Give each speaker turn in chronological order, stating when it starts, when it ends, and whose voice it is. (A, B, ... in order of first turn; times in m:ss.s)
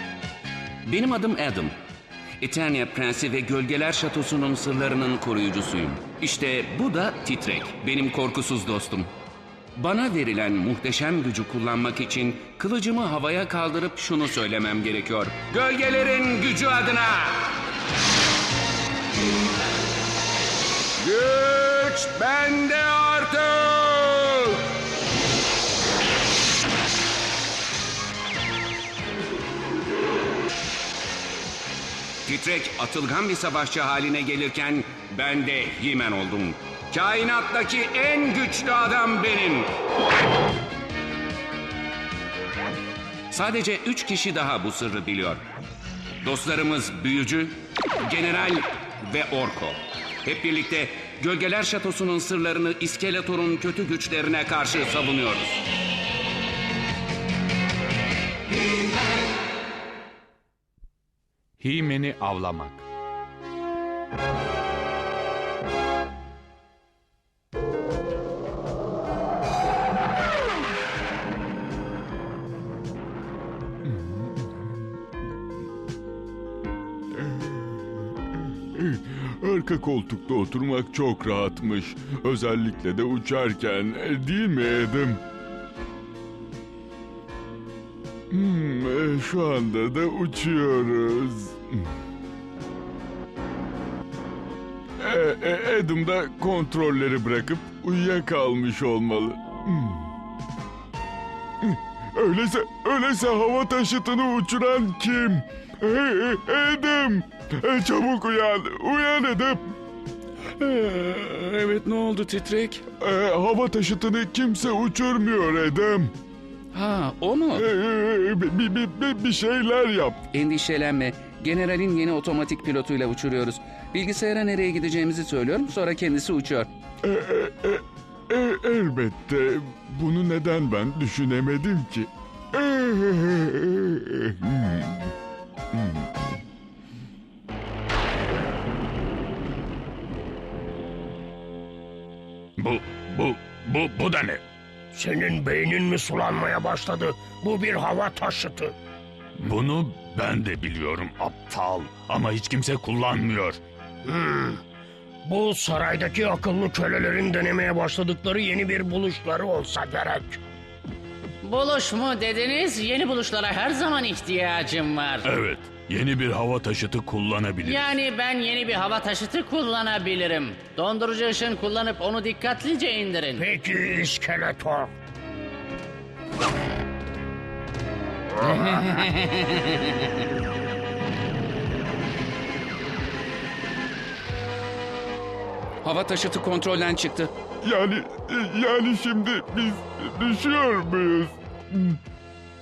0:00.8-0:01.7 A
0:02.4-0:09.1 A
0:09.8-0:17.4 A
0:21.0-0:24.6 A
0:32.2-0:39.7 A
0:43.3-0:45.4 A
0:46.2-0:55.6 A
1:01.7-1:02.7 A
1:13.9-1:14.2 B
1:18.8-1:25.2 B
1:28.3-1:31.9 B
1:35.0-1:40.1 B
1:41.6-1:49.7 B
1:50.7-1:52.8 A
1:53.0-1:56.1 B
1:56.7-1:57.7 A
1:57.5-2:00.2 B
2:00.3-2:06.7 A
2:07.0-2:15.1 B
2:15.7-2:16.1 B
2:22.6-2:24.4 C
2:24.9-2:28.7 D
2:29.4-2:33.6 C
2:34.0-2:34.6 D
2:35.2-2:40.4 D
2:41.4-2:45.2 E
2:45.2-2:47.9 C
2:47.6-2:53.4 E
2:53.4-2:54.9 D
2:58.4-3:00.0 E
3:05.8-3:07.3 A
3:07.6-3:12.0 B